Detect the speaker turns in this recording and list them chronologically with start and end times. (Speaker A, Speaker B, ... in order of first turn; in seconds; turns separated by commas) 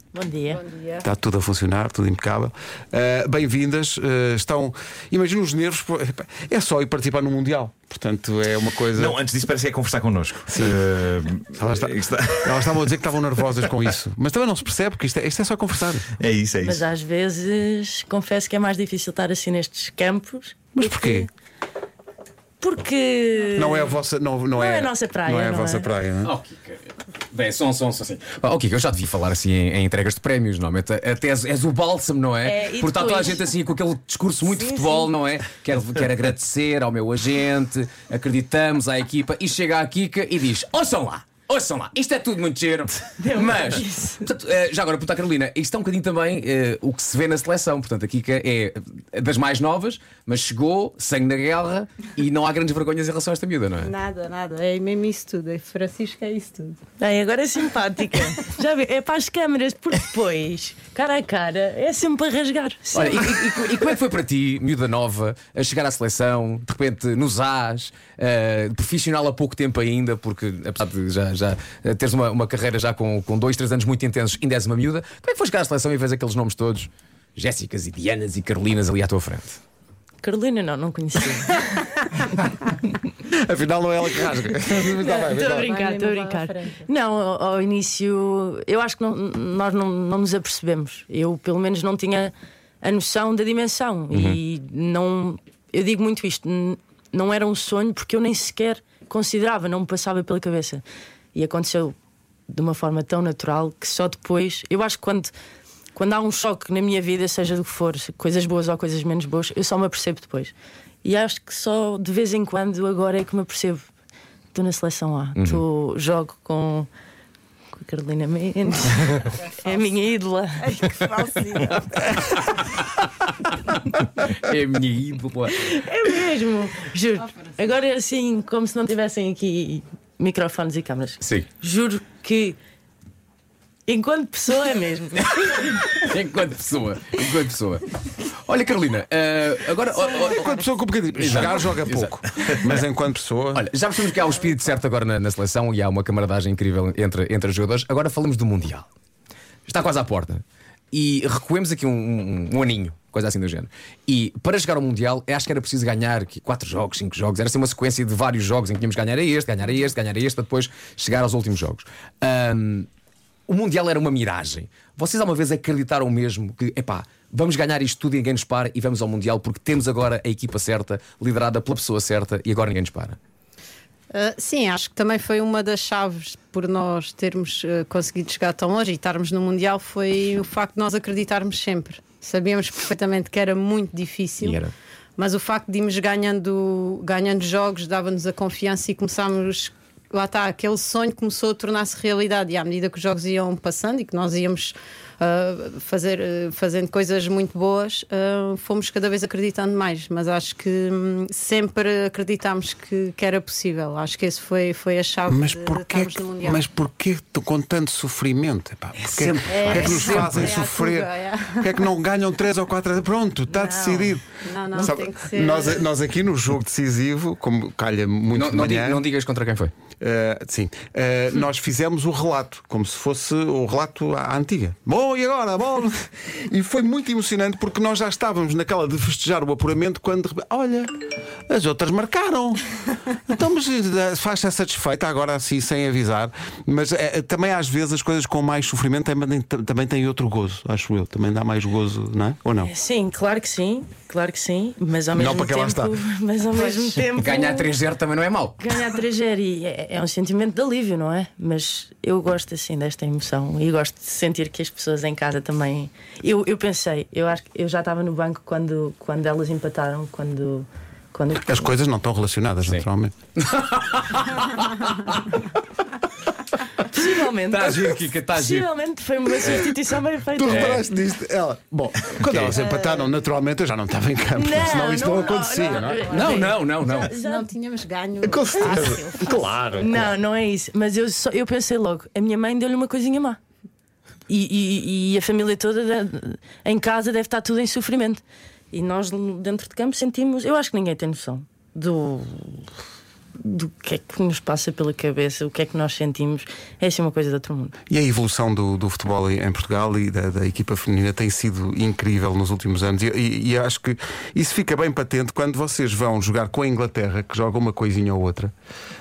Speaker A: 0.1-0.6, Speaker B: 0.5-1.1, Speaker C: 1.0-9.2, Speaker D: 8.9-12.7, Speaker C: 10.5-10.8, Speaker C: 11.5-16.1, Speaker D: 16.2-16.9, Speaker A: 16.6-21.2, Speaker C: 20.8-21.3, Speaker A: 22.6-24.0, Speaker C: 23.6-26.3, Speaker A: 24.6-25.9, Speaker E: 26.2-53.9, Speaker A: 32.4-33.5, Speaker A: 34.6-35.0, Speaker A: 43.2-44.2, Speaker B: 53.8-56.8, Speaker A: 57.0-63.7, Speaker E: 63.0-79.6, Speaker A: 80.2-81.9, Speaker C: 83.3-85.8, Speaker A: 84.8-100.8, Speaker B: 85.2-86.9, Speaker A: 101.3-102.0, Speaker A: 102.5-105.3, Speaker A: 106.0-113.9, Speaker A: 114.5-116.9, Speaker E: 115.4-115.6, Speaker A: 117.8-120.8, Speaker B: 120.6-122.2, Speaker E: 122.4-122.9, Speaker E: 124.2-125.7, Speaker A: 125.5-132.6, Speaker E: 131.2-131.5, Speaker A: 133.9-135.8, Speaker E: 135.2-137.9, Speaker E: 138.4-140.6, Speaker C: 140.1-143.7, Speaker E: 141.1-142.8, Speaker E: 143.6-148.9, Speaker E: 149.7-162.9, Speaker E: 163.5-173.2, Speaker B: 174.1-184.6, Speaker E: 184.4-184.7, Speaker B: 185.2-206.6, Speaker C: 205.3-219.0, Speaker E: 209.0-210.6, Speaker B: 209.5-211.8, Speaker A: 213.5-214.1, Speaker B: 214.4-215.8, Speaker E: 218.3-219.7, Speaker C: 220.0-231.0, Speaker C: 231.5-232.7, Speaker C: 233.3-242.7, Speaker A: 242.6-247.7, Speaker C: 245.1-246.0, Speaker E: 247.2-248.6, Speaker A: 248.6-261.6, Speaker C: 261.4-263.1, Speaker E: 263.4-265.4, Speaker A: 266.8-270.8, Speaker E: 267.5-268.7, Speaker C: 270.4-276.1, Speaker E: 270.5-270.8, Speaker D: 272.2-272.6, Speaker A: 274.4-277.5, Speaker B: 276.0-279.6, Speaker E: 276.1-277.1, Speaker C: 278.2-280.1, Speaker A: 279.7-283.4, Speaker A: 284.3-292.7, Speaker A: 293.4-297.8, Speaker C: 297.9-308.5